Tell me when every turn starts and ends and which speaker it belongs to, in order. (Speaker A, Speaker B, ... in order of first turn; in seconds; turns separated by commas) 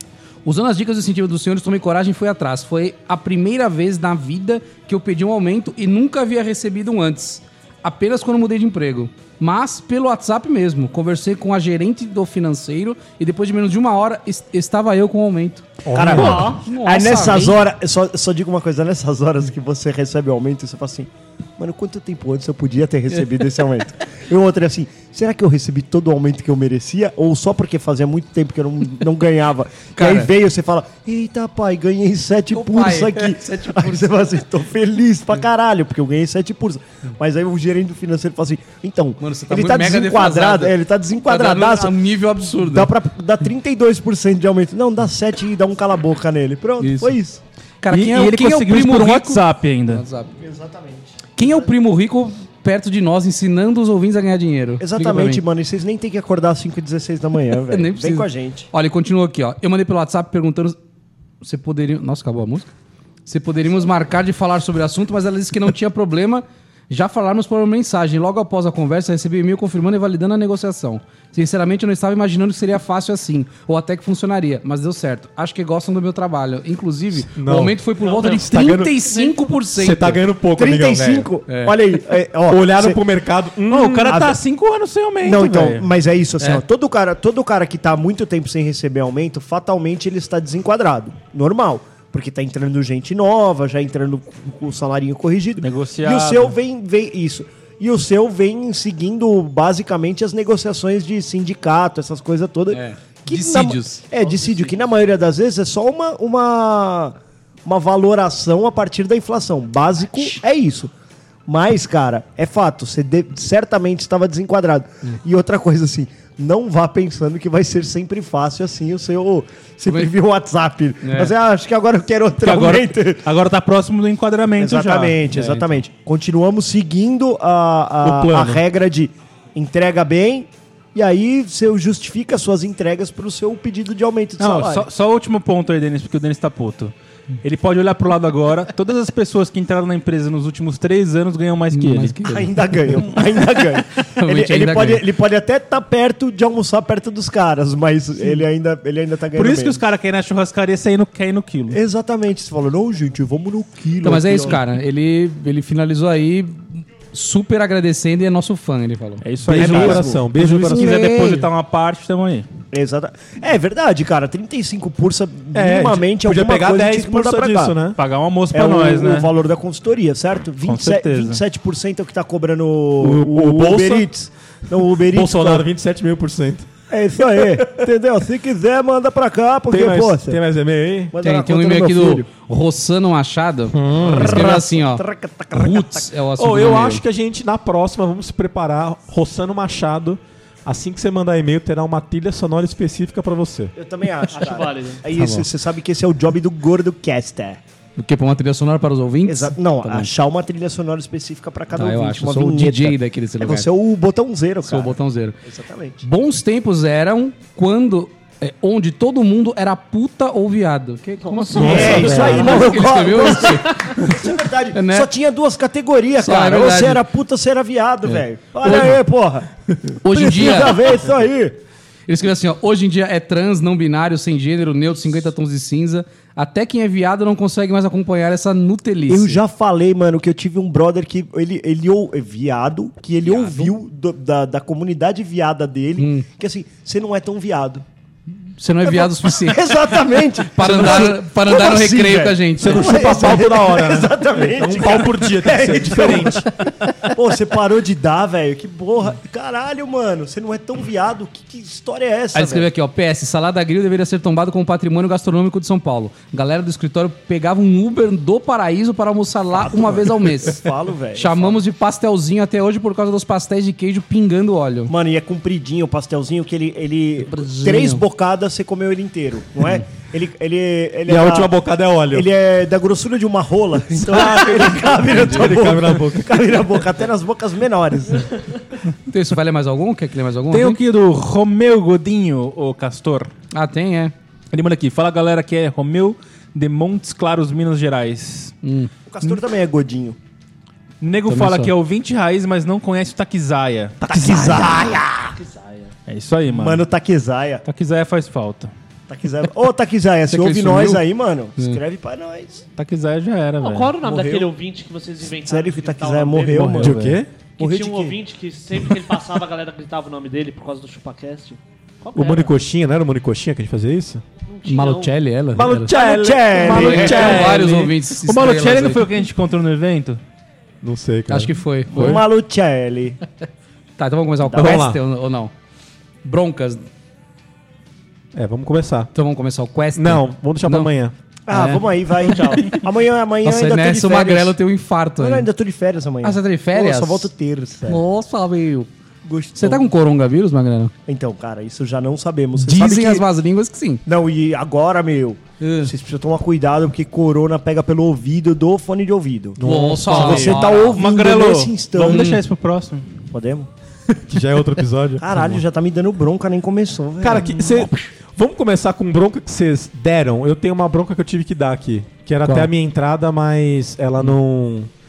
Speaker A: 0.4-15.7, Speaker B: 15.8-16.6, Speaker C: 15.9-47.4, Speaker D: 16.0-16.6, Speaker A: 16.6-17.6, Speaker A: 29.9-30.3, Speaker A: 32.5-34.3, Speaker A: 39.2-42.9, Speaker A: 46.8-47.1, Speaker A: 47.8-50.3, Speaker E: 47.9-50.0, Speaker C: 50.4-51.7, Speaker A: 51.4-55.4, Speaker C: 54.8-58.7, Speaker A: 57.7-60.8, Speaker A: 61.4-62.7, Speaker A: 63.2-80.2, Speaker B: 77.3-77.8, Speaker D: 78.0-79.5, Speaker B: 78.3-79.0, Speaker B: 79.7-81.2, Speaker C: 80.5-83.0, Speaker A: 80.9-81.8, Speaker B: 82.5-84.2, Speaker E: 83.7-85.9, Speaker C: 84.1-84.4, Speaker C: 85.2-110.9, Speaker E: 95.6-96.5, Speaker A: 102.7-104.0, Speaker D: 104.2-104.9, Speaker C: 111.5-123.2, Speaker A: 121.0-121.3, Speaker E: 122.4-125.2, Speaker C: 124.6-134.9, Speaker A: 125.3-125.8, Speaker B: 128.0-128.6, Speaker E: 134.4-142.2, Speaker A: 141.7-143.4, Speaker C: 142.2-149.8, Speaker A: 143.9-145.0, Speaker E: 149.3-151.8, Speaker C: 151.7-154.6, Speaker A: 154.0-159.2, Speaker E: 159.2-162.5, Speaker B: 159.4-161.0, Speaker C: 159.5-160.2, Speaker A: 160.6-161.5, Speaker C: 162.7-167.8, Speaker B: 165.5-168.0, Speaker E: 167.9-169.3, Speaker C: 168.5-175.7, Speaker E: 170.6-171.4, Speaker B: 173.0-174.1, Speaker B: 175.1-176.7, Speaker C: 176.9-180.4, Speaker B: 177.2-177.8, Speaker B: 179.7-181.1, Speaker C: 181.1-182.2, Speaker A: 181.2-187.0, Speaker B: 183.7-184.5, Speaker C: 183.9-186.1, Speaker B: 186.4-193.7, Speaker C: 193.7-197.6, Speaker D: 194.3-195.0, Speaker A: 195.1-195.5, Speaker A: 198.0-200.1, Speaker C: 199.2-206.0, Speaker A: 201.7-203.7, Speaker A: 204.6-205.3, Speaker A: 206.0-215.1, Speaker D: 211.2-212.9, Speaker B: 211.5-212.6, Speaker C: 211.5-221.6, Speaker D: 213.5-213.9, Speaker A: 216.2-217.0, Speaker A: 218.0-219.0, Speaker A: 220.0-220.8, Speaker A: 222.1-229.4, Speaker C: 229.1-237.8, Speaker A: 233.2-233.7, Speaker A: 236.0-236.2, Speaker A: 238.6-243.3, Speaker C: 238.8-252.7, Speaker B: 242.6-246.5, Speaker A: 252.3-264.9, Speaker C: 259.5-261.6, Speaker C: 264.9-271.5, Speaker A: 267.3-268.0, Speaker B: 271.1-272.3, Speaker C: 272.1-278.6, Speaker B: 274.1-276.5, Speaker A: 275.0-275.5, Speaker A: 279.1-280.8, Speaker E: 280.5-283.3, Speaker A: 283.5-284.1, Speaker E: 284.5-288.5, Speaker A: 288.6-288.9, Speaker C: 289.1-290.2, Speaker E: 291.0-294.7, Speaker A: 291.3-291.7, Speaker C: 294.0-295.4, Speaker D: 295.4-295.9, Speaker E: 296.1-296.8, Speaker C: 296.5-297.6, Speaker E: 297.6-298.7, Speaker C: 299.1-302.6, Speaker A: 300.3-301.0, Speaker E: 302.8-303.9, Speaker D: 303.6-306.8, Speaker C: 304.0-304.5, Speaker C: 305.4-307.0, Speaker E: 306.5-307.2, Speaker B: 306.8-307.3, Speaker D: 307.6-312.5, Speaker C: 307.6-308.2, Speaker B: 312.1-314.2, Speaker D: 314.5-315.1, Speaker A: 314.7-315.9, Speaker B: 315.5-317.6, Speaker C: 315.9-317.5, Speaker A: 316.6-319.0, Speaker E: 316.7-320.2, Speaker B: 320.8-322.2, Speaker A: 321.3-322.2, Speaker C: 321.9-323.2, Speaker A: 324.0-325.5, Speaker C: 324.4-324.8, Speaker B: 324.6-325.0, Speaker A: 326.2-326.9, Speaker B: 328.3-329.1, Speaker A: 329.1-330.9, Speaker B: 329.9-331.1, Speaker C: 331.5-334.6, Speaker A: 331.5-332.8, Speaker A: 333.4-335.5, Speaker C: 335.2-338.0, Speaker A: 336.2-337.3, Speaker A: 337.9-338.9, Speaker C: 339.2-339.9, Speaker A: 339.5-340.9, Speaker C: 341.1-343.2, Speaker A: 342.6-344.0, Speaker C: 344.0-352.3, Speaker A: 345.6-345.9, Speaker B: 349.6-350.7, Speaker A: 349.6-351.0, Speaker E: 350.2-353.1, Speaker A: 352.1-352.4, Speaker C: 353.3-353.7, Speaker B: 354.1-355.6, Speaker C: 355.2-357.6, Speaker B: 357.2-364.9, Speaker A: 362.4-362.7